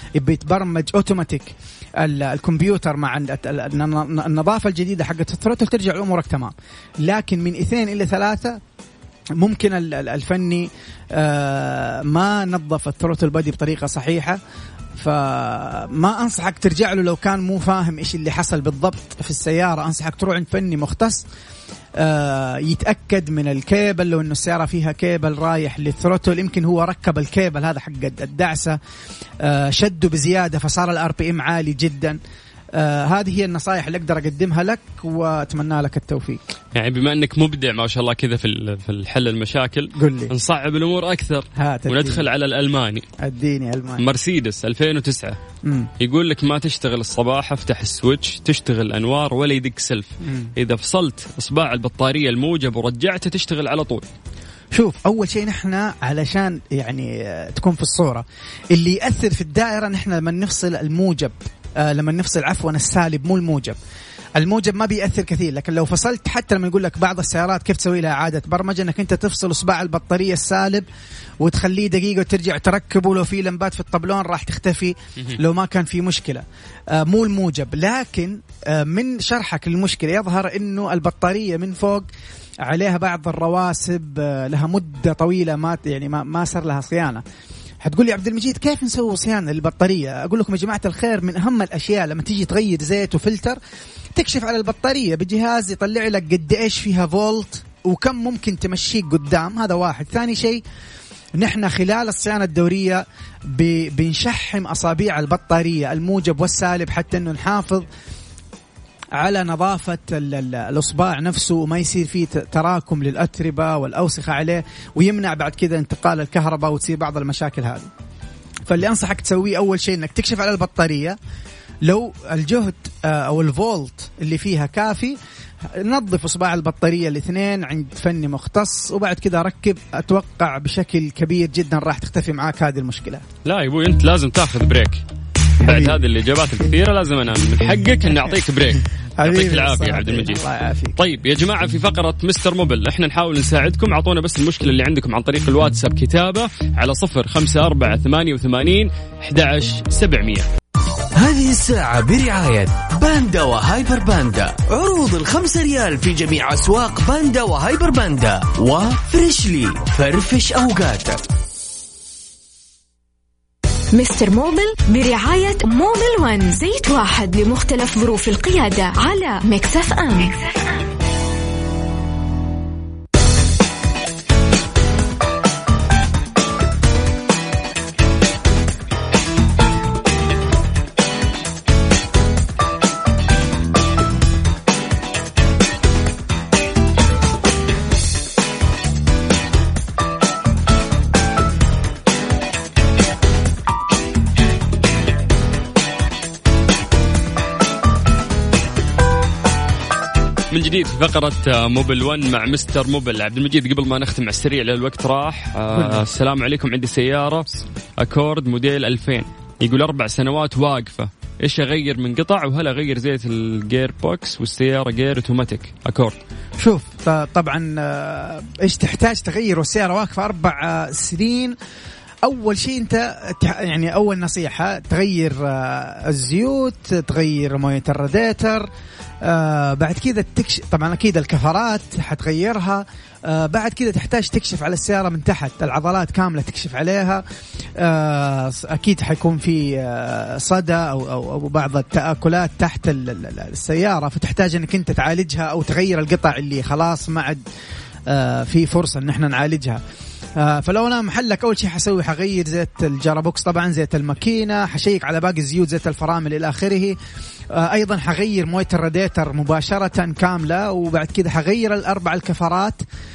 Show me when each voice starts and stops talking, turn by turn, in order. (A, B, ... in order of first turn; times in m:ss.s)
0:00.2-0:08.6 A
0:09.4-0:14.4 A
0:15.0-0:21.2 A
0:22.0-0:28.8 A
0:29.4-0:32.2 A
0:32.7-0:36.5 A
0:36.7-0:43.0 B
0:39.9-0:40.3 A
0:41.6-0:42.2 A
0:43.2-0:44.1 A
0:44.0-0:45.4 B
0:45.6-0:45.9 A
0:46.0-0:54.0 B
0:50.2-0:50.5 A
0:54.7-1:03.8 A
1:04.4-1:10.9 A
1:11.4-1:22.1 A
1:22.6-1:27.2 A
1:27.8-1:33.6 A
1:34.2-1:40.6 A
1:41.4-1:47.9 A
1:49.2-1:57.9 A
1:58.7-2:01.2 A
2:01.8-2:13.2 A
2:13.4-2:15.0 B
2:15.6-2:20.4 B
2:15.6-2:16.0 A
2:19.2-2:21.2 A
2:21.0-2:30.5 B
2:31.2-2:41.2 C
2:43.9-2:50.4 D
3:20.5-3:36.2 B
3:25.7-3:26.0 A
3:36.6-3:41.6 A
3:42.2-3:48.7 A
3:49.2-3:57.2 A
3:57.8-4:07.4 A
4:08.1-4:09.8 A
4:10.4-4:17.0 A
4:17.5-4:22.8 A